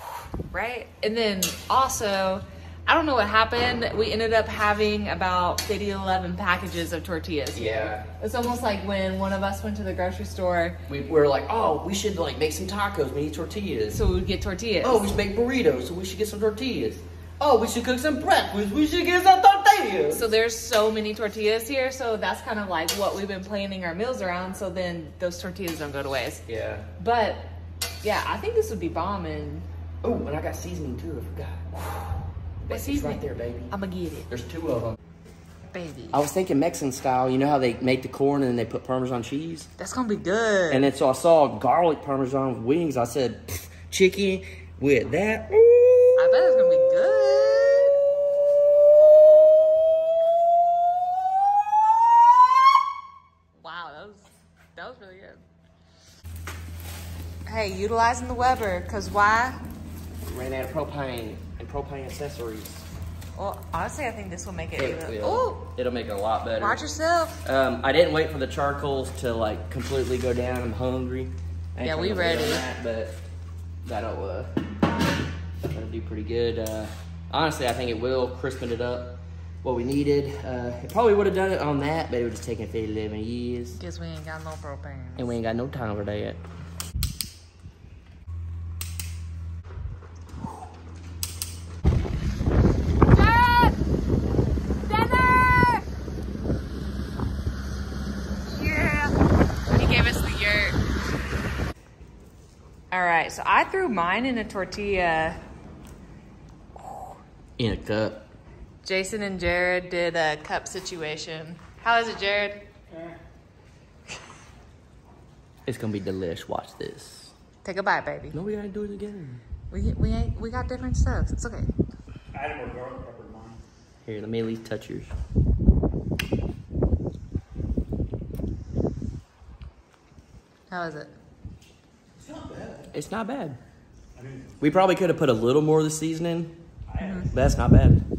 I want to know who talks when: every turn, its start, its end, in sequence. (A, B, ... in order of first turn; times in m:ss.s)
0:00.5-0:10.8 A
0:07.5-0:08.1 B
0:10.9-0:14.0 B
0:13.9-0:15.1 A
0:14.8-0:20.3 B
0:20.1-0:26.4 A
0:26.5-0:26.9 B
0:27.0-0:27.5 A
0:28.0-0:29.7 A
0:30.0-0:31.8 B
0:32.6-0:33.7 B
0:32.7-0:34.3 A
0:34.3-0:35.0 B
0:35.7-0:36.2 A
0:36.1-0:39.7 B
0:39.8-0:40.9 A
0:40.7-0:46.5 B
0:46.2-0:48.0 A
0:53.6-0:55.4 A
0:57.5-0:59.6 A
1:00.2-1:02.8 B
1:03.4-1:05.6 A
1:04.8-1:06.8 B
1:06.6-1:07.4 A
1:07.4-1:13.2 B
1:11.8-1:12.7 A
1:13.8-1:14.6 B
1:15.7-1:23.8 B
1:23.8-1:25.4 A
1:25.2-1:26.4 B
1:33.1-1:33.8 A
1:34.8-1:35.8 A
1:38.5-1:39.1 A
1:39.7-1:40.8 A
1:42.9-1:45.4 A
1:47.6-1:48.2 B
1:48.8-1:52.6 A
1:52.9-1:53.2 C
1:55.7-1:57.3 B
1:57.6-1:58.4 A
1:58.3-1:59.4 B
1:59.7-2:01.7 A
2:02.3-2:03.6 C
2:04.0-2:05.1 B
2:10.7-2:11.1 A
2:12.2-2:12.9 C
2:12.9-2:13.6 B
2:14.2-2:14.7 C
2:14.6-2:16.6 B
2:16.9-2:17.4 C
2:17.0-2:17.3 A
2:17.3-2:18.0 B